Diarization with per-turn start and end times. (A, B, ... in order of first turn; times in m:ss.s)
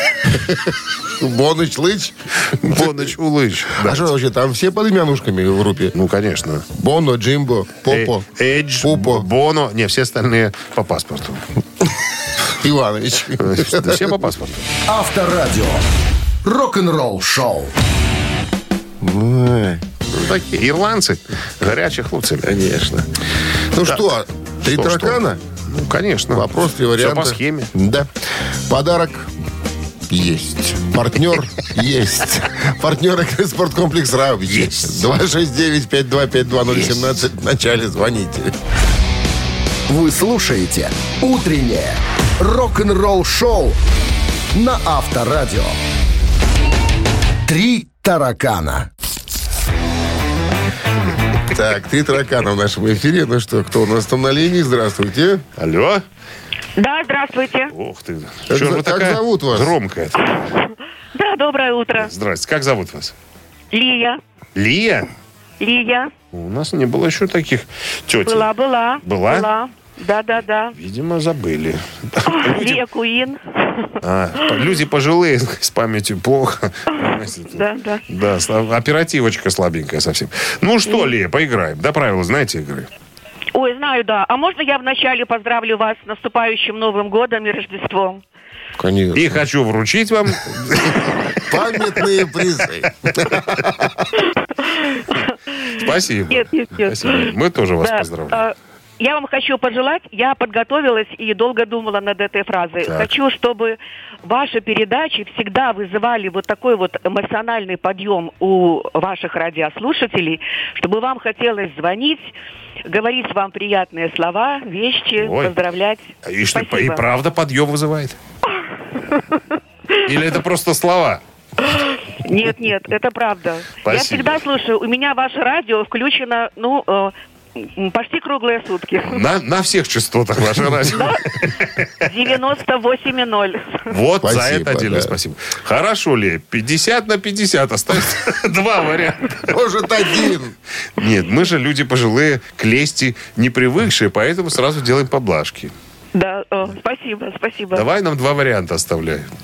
0:00.3-0:03.1 A
0:02.5-0:04.1 B
0:03.8-0:05.9 A
0:06.0-0:06.7 B
0:06.7-0:08.2 A
0:07.9-0:11.4 B
0:08.8-0:09.3 A
0:12.5-0:14.1 A
0:13.4-0:14.6 B
0:14.9-0:15.8 C
0:16.4-0:17.7 C
0:19.0-0:19.8 A
0:20.1-0:22.5 B
0:22.4-0:23.1 A
0:23.7-0:25.4 A
0:24.6-0:27.7 B
0:26.3-0:28.1 A
0:28.7-0:29.3 A
0:30.1-0:38.5 A
0:34.5-0:35.1 B
0:36.7-0:37.1 B
0:39.9-0:43.8 C
0:44.5-0:45.8 C
0:47.4-0:48.9 C
0:51.5-0:55.4 A
0:55.6-0:56.0 B
0:56.8-0:57.7 D
0:57.7-1:00.3 B
0:58.5-0:59.8 A
1:01.1-1:02.1 D
1:02.0-1:03.1 B
1:03.7-1:04.2 D
1:04.6-1:05.1 B
1:05.6-1:06.1 D
1:06.3-1:08.5 B
1:08.2-1:10.8 D
1:09.0-1:09.5 B
1:10.8-1:12.8 B
1:12.3-1:13.9 D
1:14.0-1:22.9 B
1:16.9-1:18.0 D
1:23.5-1:28.2 D
1:28.8-1:29.4 A
1:29.1-1:31.1 B
1:31.5-1:33.4 A
1:34.6-1:52.3 D
1:35.8-1:38.5 B
1:42.8-1:43.1 B
1:52.9-1:57.0 D
1:55.2-1:55.6 B
1:56.2-1:58.2 B
2:00.0-2:01.2 B
2:01.6-2:09.2 D
2:03.8-2:04.5 B
2:09.1-2:12.1 B
2:10.9-2:11.4 D
2:12.0-2:13.9 D
2:13.9-2:19.5 B
2:14.2-2:15.2 A
2:19.5-2:20.6 A
2:21.0-2:25.7 B
2:26.1-2:27.9 D
2:27.7-2:29.3 B